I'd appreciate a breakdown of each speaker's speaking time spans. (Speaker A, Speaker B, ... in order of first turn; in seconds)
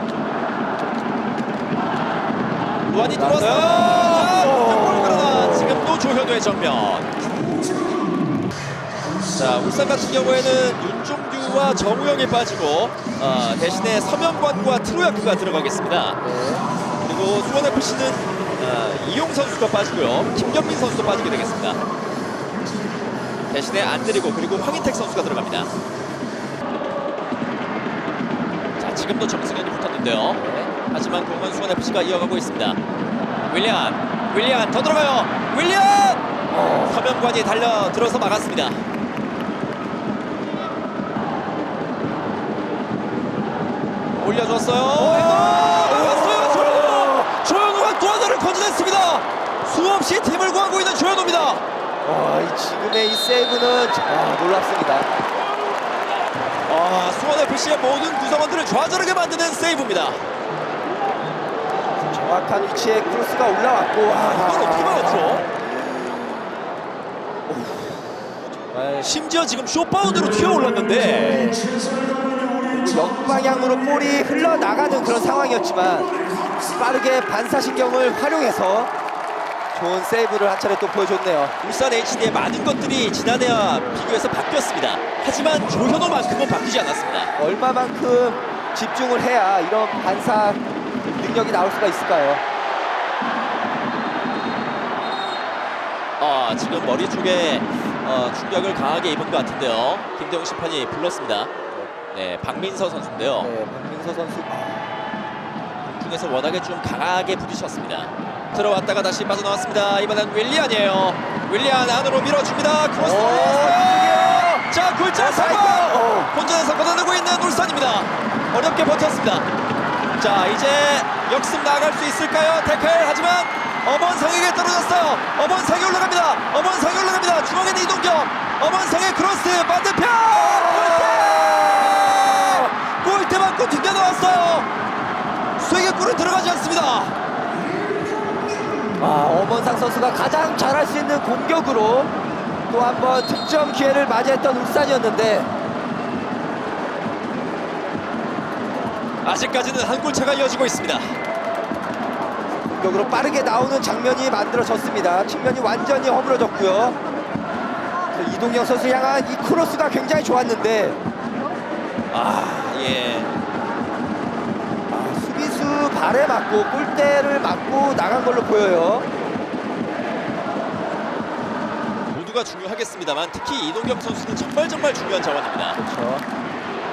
Speaker A: 2.9-7.1, 9.3-16.2, 17.0-21.8, 23.5-25.7, 28.8-32.8, 33.5-36.2, 36.8-38.8, 44.1-51.6, 56.7-60.3, 64.1-65.5, 69.0-71.4, 81.6-87.3, 96.2-101.5, 102.1-103.5, 105.8-119.5, 120.2-134.7, 135.6-137.2, 149.2-151.2, 162.1-163.3, 172.1-175.8
Speaker B: 3.0-6.0, 16.2-16.7, 30.3-30.7, 36.5-37.0, 44.9-47.3, 52.0-55.1, 62.0-66.6, 67.5-69.1, 71.0-71.7, 72.6-76.1, 76.8-78.9, 79.7-81.5, 87.4-92.4, 103.4-104.9, 113.0-116.3, 130.3-132.7, 139.0-142.1, 142.7-145.5, 152.7-157.0, 158.1-161.0, 164.9-169.1, 175.8-176.2